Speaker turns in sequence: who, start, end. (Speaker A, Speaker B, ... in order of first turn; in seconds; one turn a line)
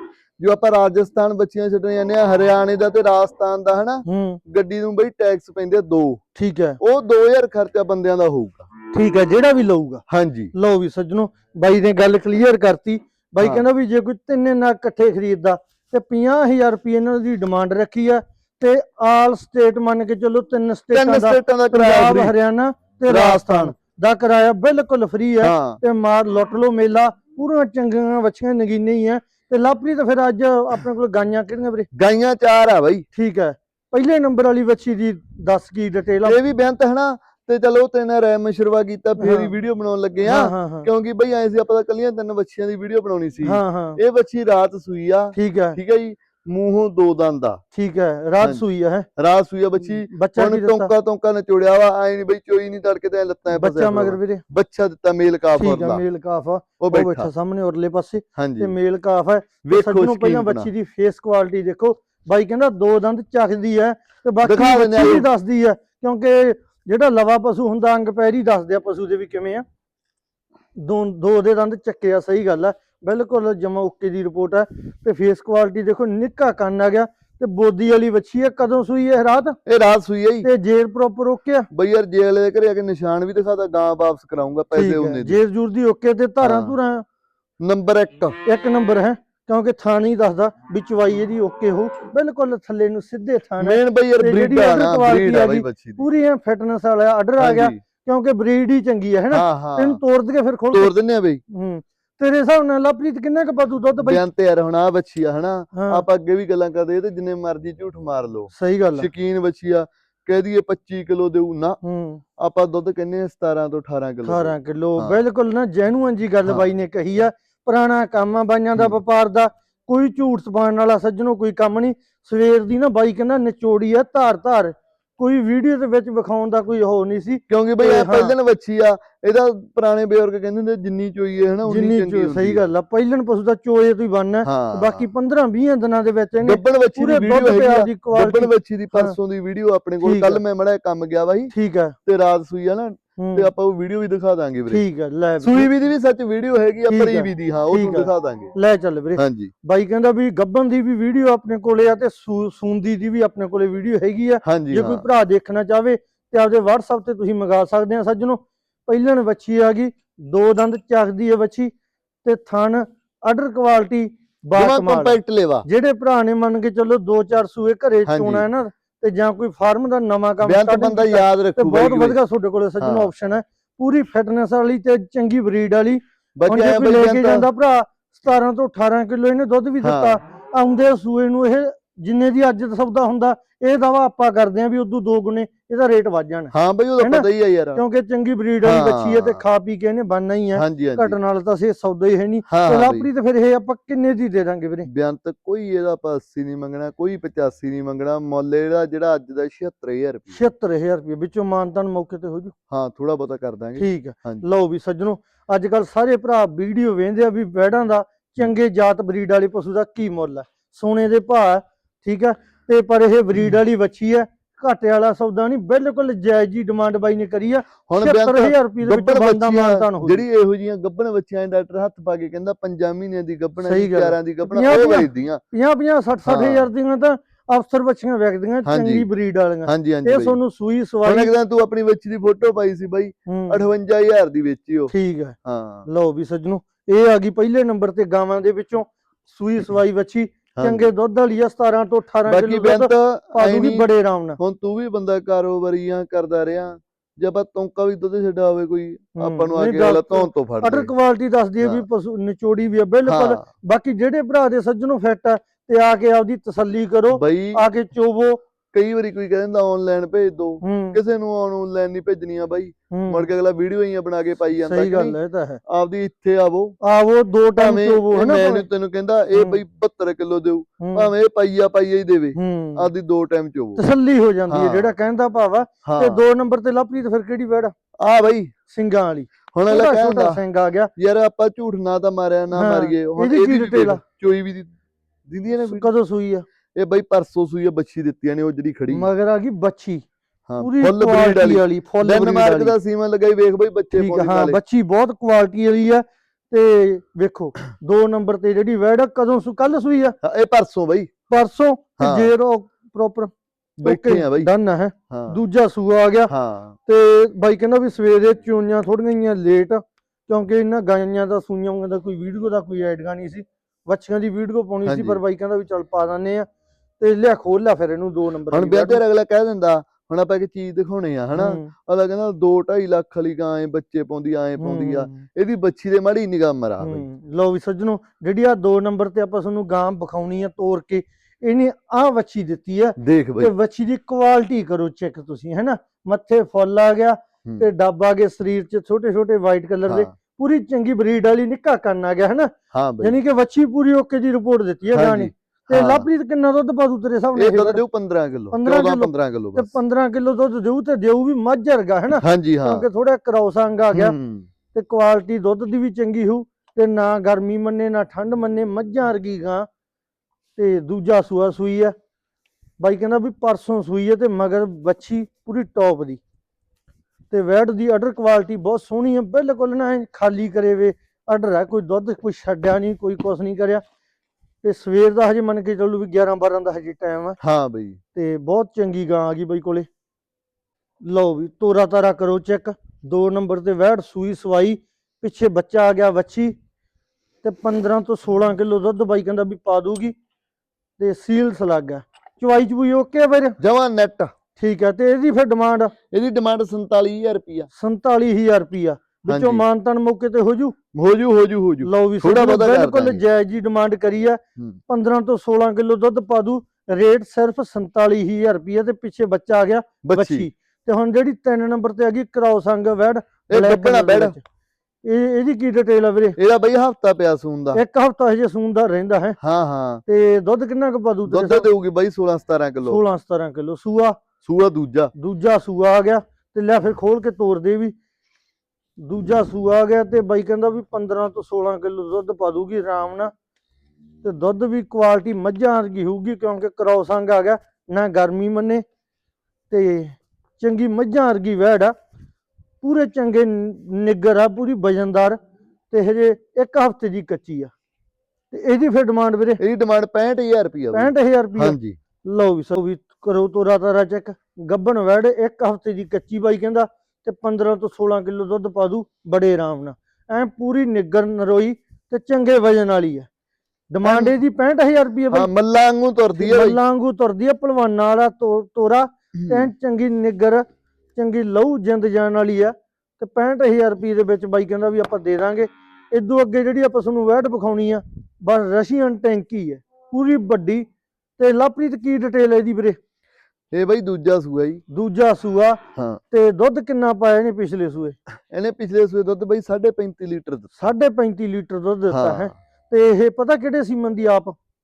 Speaker A: 0.4-6.2
Speaker B: 4.0-4.4
Speaker B: 6.3-6.8
Speaker A: 6.8-8.7
Speaker B: 8.9-10.0
Speaker A: 10.1-10.5
Speaker B: 10.5-31.9
Speaker A: 13.4-13.6
Speaker A: 20.9-22.3
Speaker A: 23.1-23.7
Speaker A: 25.4-25.8
Speaker A: 31.9-33.0
Speaker B: 33.1-36.4
Speaker A: 36.2-47.6
Speaker B: 39.2-39.5
Speaker B: 40.2-40.9
Speaker B: 43.4-44.0
Speaker B: 45.3-45.8
Speaker B: 47.7-49.1
Speaker A: 48.4-48.6
Speaker A: 49.2-56.0
Speaker B: 50.1-50.9
Speaker B: 53.5-54.4
Speaker B: 55.5-69.6
Speaker A: 56.8-57.3
Speaker A: 58.4-58.7
Speaker A: 59.6-60.7
Speaker A: 64.4-65.3
Speaker B: 70.8-79.6
Speaker A: 79.7-80.5
Speaker B: 80.4-81.7
Speaker A: 81.7-85.4
Speaker B: 84.7-87.0
Speaker A: 86.4-86.8
Speaker A: 87.6-88.4
Speaker B: 88.4-100.9
Speaker A: 93.6-96.0
Speaker A: 97.4-97.8
Speaker A: 99.3-100.0
Speaker A: 100.7-101.4
Speaker B: 101.5-104.2
Speaker A: 104.0-111.8
Speaker B: 105.7-106.0
Speaker B: 108.5-109.1
Speaker B: 111.8-112.2
Speaker A: 112.4-115.2
Speaker B: 114.2-128.3
Speaker A: 127.5-132.6
Speaker B: 131.7-139.2
Speaker A: 134.4-135.1
Speaker A: 136.4-141.5
Speaker B: 140.0-140.4
Speaker B: 141.5-141.9
Speaker A: 142.0-144.8
Speaker B: 143.2-143.5
Speaker B: 144.7-145.7
Speaker A: 145.4-148.5
Speaker B: 146.9-161.7
Speaker A: 149.2-149.5
Speaker A: 154.4-155.0
Speaker B: 162.2-194.9
Speaker A: 164.5-165.7
Speaker A: 168.1-168.4
Speaker A: 170.4-172.2
Speaker A: 172.8-173.1
Speaker A: 176.3-177.5
Speaker A: 179.8-180.2
Speaker A: 186.5-187.8
Speaker A: 188.6-189.4
Speaker A: 190.5-191.2
Speaker A: 192.5-193.1
Speaker A: 194.8-200.4
Speaker B: 200.3-202.5
Speaker A: 202.7-204.4
Speaker B: 203.8-220.2
Speaker A: 217.9-225.4
Speaker B: 223.6-231.3
Speaker A: 226.2-226.7
Speaker A: 228.6-229.1
Speaker A: 229.7-230.4
Speaker A: 231.0-234.9
Speaker B: 233.3-233.6
Speaker B: 234.9-235.3
Speaker A: 235.4-235.9
Speaker B: 235.9-244.4
Speaker A: 240.6-240.9
Speaker A: 242.3-243.9
Speaker A: 244.4-250.9
Speaker B: 249.2-258.4
Speaker A: 253.1-253.4
Speaker A: 257.1-257.6
Speaker A: 258.7-266.8
Speaker B: 260.6-261.0
Speaker B: 262.9-263.2
Speaker B: 264.6-265.6
Speaker B: 266.8-268.6
Speaker A: 267.6-273.8
Speaker B: 269.3-269.6
Speaker B: 270.8-271.1
Speaker B: 272.4-272.9
Speaker B: 273.8-277.7
Speaker A: 274.5-274.9
Speaker A: 275.9-276.2
Speaker A: 278.0-278.5
Speaker B: 278.7-280.9
Speaker A: 279.5-280.4
Speaker A: 281.0-284.7
Speaker B: 282.5-284.0
Speaker A: 285.3-285.9
Speaker B: 285.6-286.4
Speaker A: 286.7-289.1
Speaker B: 288.9-290.0
Speaker A: 290.5-294.6
Speaker B: 290.6-292.7
Speaker B: 293.9-300.2
Speaker A: 300.2-301.1
Speaker B: 301.3-303.3
Speaker A: 302.0-302.3
Speaker A: 303.8-304.5
Speaker B: 303.8-306.3
Speaker A: 305.1-305.4
Speaker A: 306.3-306.8
Speaker B: 306.9-316.5
Speaker A: 314.9-315.2
Speaker B: 317.0-319.0
Speaker A: 318.5-327.0
Speaker B: 321.3-321.7
Speaker B: 324.6-325.2
Speaker B: 326.8-347.8
Speaker A: 333.0-333.5
Speaker A: 339.9-340.1
Speaker A: 342.7-343.2
Speaker A: 344.9-346.1
Speaker A: 347.3-349.7
Speaker B: 348.5-354.1
Speaker A: 352.2-352.8
Speaker A: 353.9-354.5
Speaker B: 354.7-359.7
Speaker B: 360.6-361.9
Speaker B: 362.8-366.2
Speaker B: 367.3-373.8
Speaker B: 374.6-377.4
Speaker A: 377.4-378.0
Speaker B: 378.1-379.9
Speaker B: 381.0-386.5
Speaker B: 387.4-390.1
Speaker B: 391.0-393.6
Speaker A: 393.6-394.3
Speaker B: 394.6-395.9
Speaker A: 396.1-397.7
Speaker B: 397.8-400.8
Speaker A: 399.2-399.6
Speaker A: 400.9-403.2
Speaker B: 401.8-414.4
Speaker A: 410.0-410.5
Speaker A: 413.5-414.4
Speaker B: 415.0-416.4
Speaker A: 416.4-417.8
Speaker B: 417.7-419.4
Speaker A: 419.4-420.0
Speaker B: 420.1-421.7
Speaker A: 421.3-423.0
Speaker B: 422.8-424.2
Speaker A: 424.4-425.1
Speaker B: 425.2-427.9
Speaker B: 429.0-433.3
Speaker B: 434.2-438.8
Speaker B: 439.7-441.9
Speaker B: 442.8-445.4
Speaker B: 445.9-447.7
Speaker B: 448.5-449.6
Speaker A: 449.6-452.0
Speaker B: 450.9-463.3
Speaker B: 463.9-465.5
Speaker A: 464.0-464.3
Speaker A: 465.3-466.8
Speaker B: 466.4-480.9
Speaker A: 469.3-469.7
Speaker B: 481.4-483.0
Speaker A: 483.7-484.8
Speaker B: 484.9-485.8
Speaker A: 485.9-486.2
Speaker B: 486.3-488.2
Speaker A: 488.5-490.8
Speaker B: 490.8-494.6
Speaker A: 492.1-492.5